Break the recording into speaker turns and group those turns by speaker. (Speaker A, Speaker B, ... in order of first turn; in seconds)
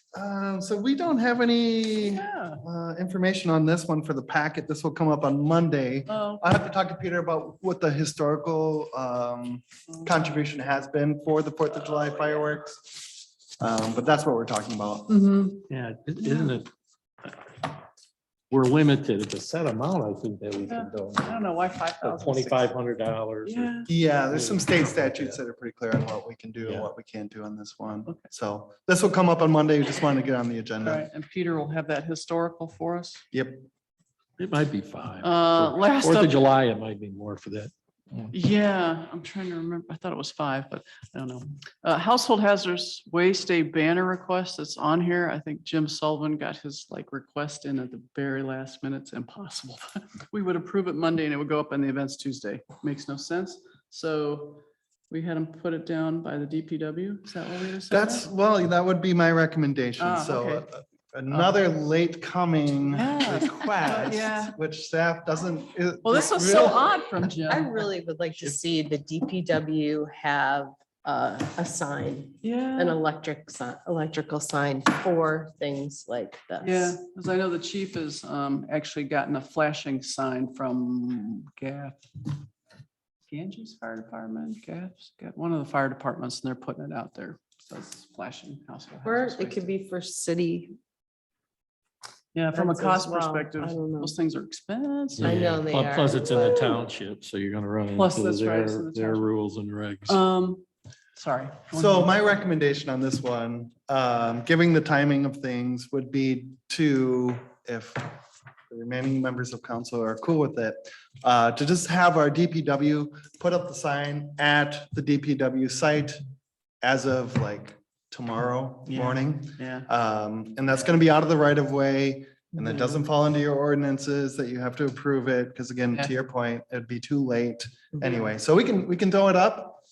Speaker A: 0.1-13.1, 13.6-15.1, 23.9-31.0, 33.3-33.6, 57.9-66.9, 101.7-108.2, 108.7-116.2, 116.8-129.8
Speaker B: 2.0-2.6, 6.1-6.5, 15.1-15.6, 16.2-16.6, 20.7-22.7, 23.4-23.9, 30.8-33.2, 35.2-36.4, 38.3-58.3, 60.0-60.7, 61.3-61.6, 62.7-64.5, 66.0-67.8, 72.4-73.0, 76.6-82.3, 83.3-89.7, 92.3-95.5, 97.9-99.3, 100.1-100.6, 101.1-102.1, 118.9-119.9
Speaker C: 15.7-16.7, 17.2-17.6, 18.5-21.4, 22.0-25.4, 26.6-26.9, 34.4-38.3, 95.2-100.2
Speaker D: 67.5-77.0, 89.0-90.8, 92.5-94.1, 95.2-96.8